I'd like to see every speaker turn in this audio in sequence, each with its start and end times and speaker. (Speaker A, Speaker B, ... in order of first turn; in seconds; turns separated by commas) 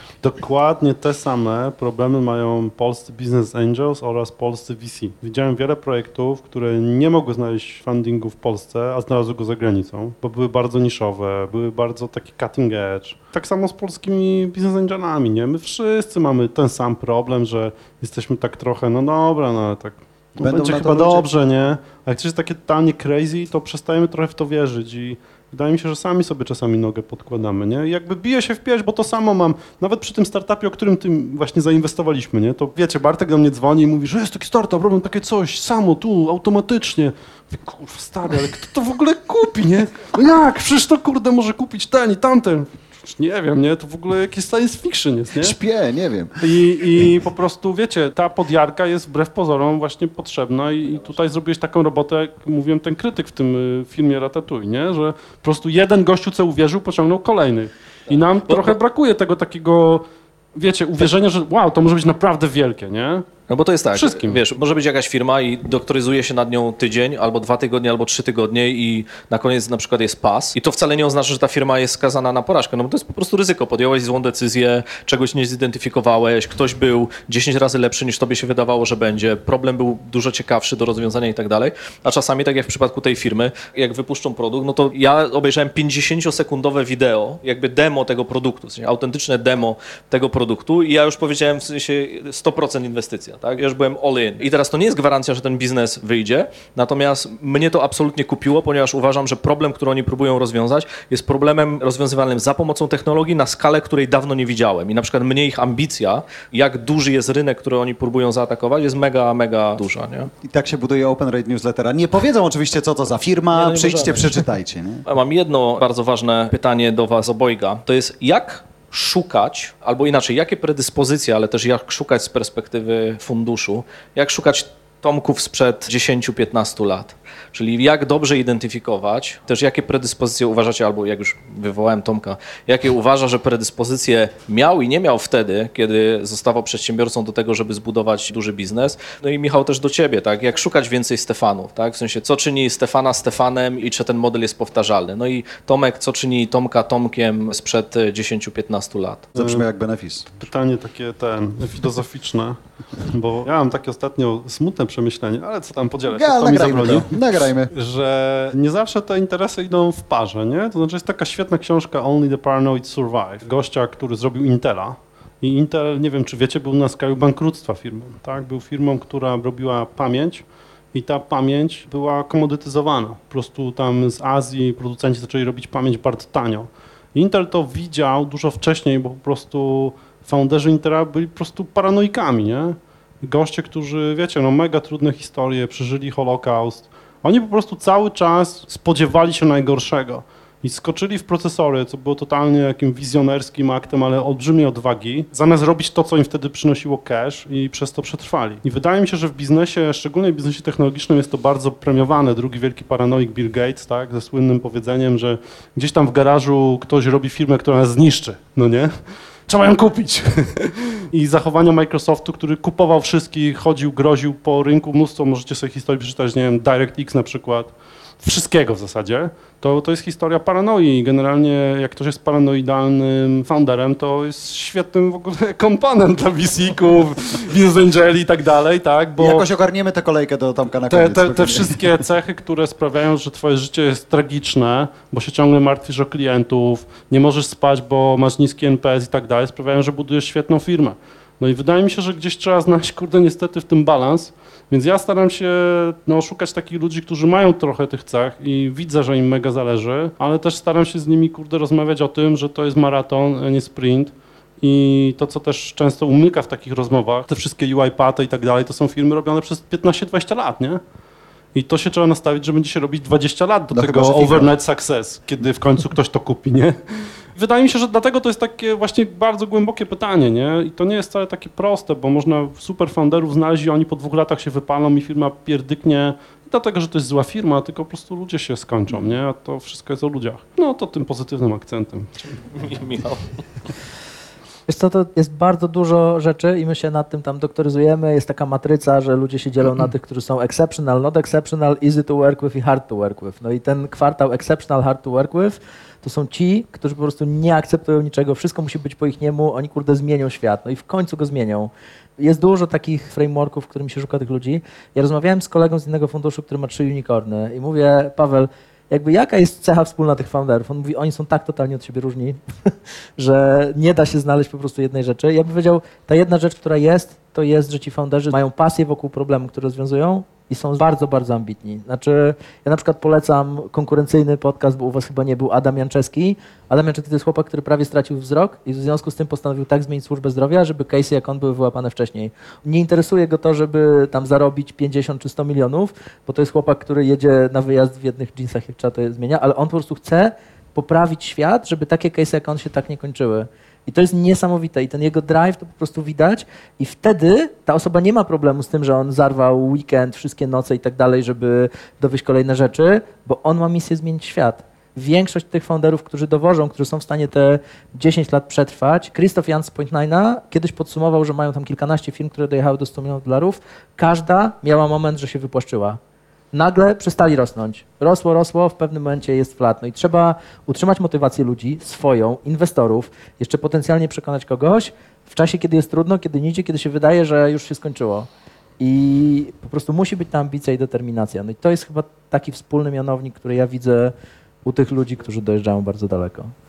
Speaker A: 0.2-45.6, Speaker B: 20.4-21.3, Speaker B: 45.4-46.4, Speaker A: 46.4-63.3, Speaker C: 58.5-58.8, Speaker C: 63.5-110.3, Speaker A: 63.9-64.4, Speaker B: 110.4-115.0, Speaker C: 113.5-114.4, Speaker C: 115.1-149.3, Speaker B: 149.3-150.3, Speaker A: 149.4-149.6, Speaker A: 150.3-208.9, Speaker B: 156.1-157.7, Speaker A: 209.5-229.5, Speaker B: 229.2-231.8, Speaker A: 230.9-260.8, Speaker A: 261.6-266.8, Speaker B: 263.7-264.5, Speaker A: 267.3-282.4, Speaker C: 282.5-283.3, Speaker D: 284.7-312.4, Speaker D: 313.2-366.0, Speaker D: 366.5-378.3, Speaker D: 378.8-384.1, Speaker D: 384.6-386.5